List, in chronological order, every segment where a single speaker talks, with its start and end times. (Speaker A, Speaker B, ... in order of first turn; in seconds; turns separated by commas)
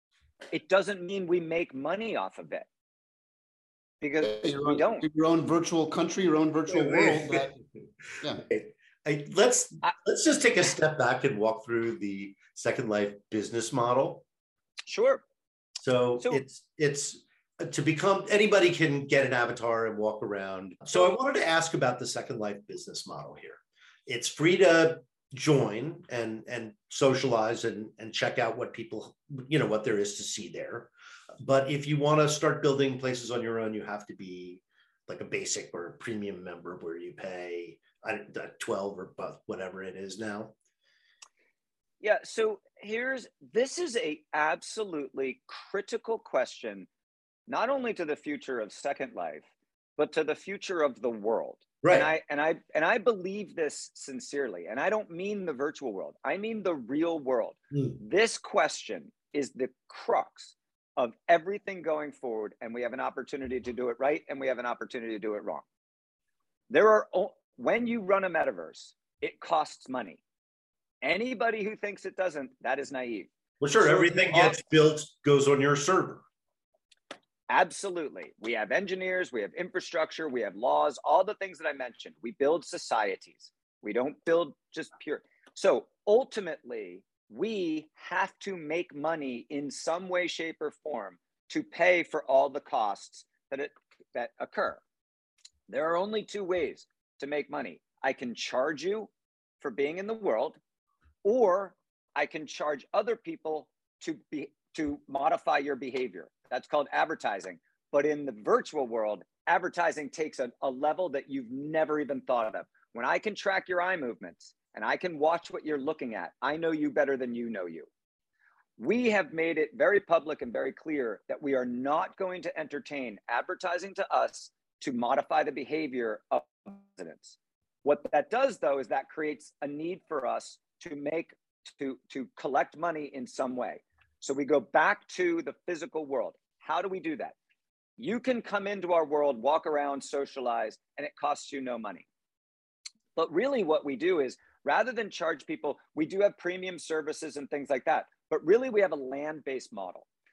Speaker A: 0.5-2.7, Speaker A: 4.0-5.1, Speaker B: 4.2-7.5, Speaker C: 6.7-7.6, Speaker C: 8.2-14.2, Speaker A: 14.9-15.2, Speaker C: 15.8-30.9, Speaker C: 31.4-40.5, Speaker A: 42.0-46.9, Speaker A: 47.5-49.5, Speaker A: 50.0-65.6, Speaker C: 51.8-52.1, Speaker A: 66.7-70.2, Speaker A: 71.0-73.3, Speaker C: 73.6-76.2, Speaker A: 73.8-74.6, Speaker A: 77.5-94.8, Speaker A: 95.7-100.6, Speaker A: 101.2-117.9, Speaker A: 118.8-137.3, Speaker A: 138.0-142.1, Speaker A: 143.2-150.1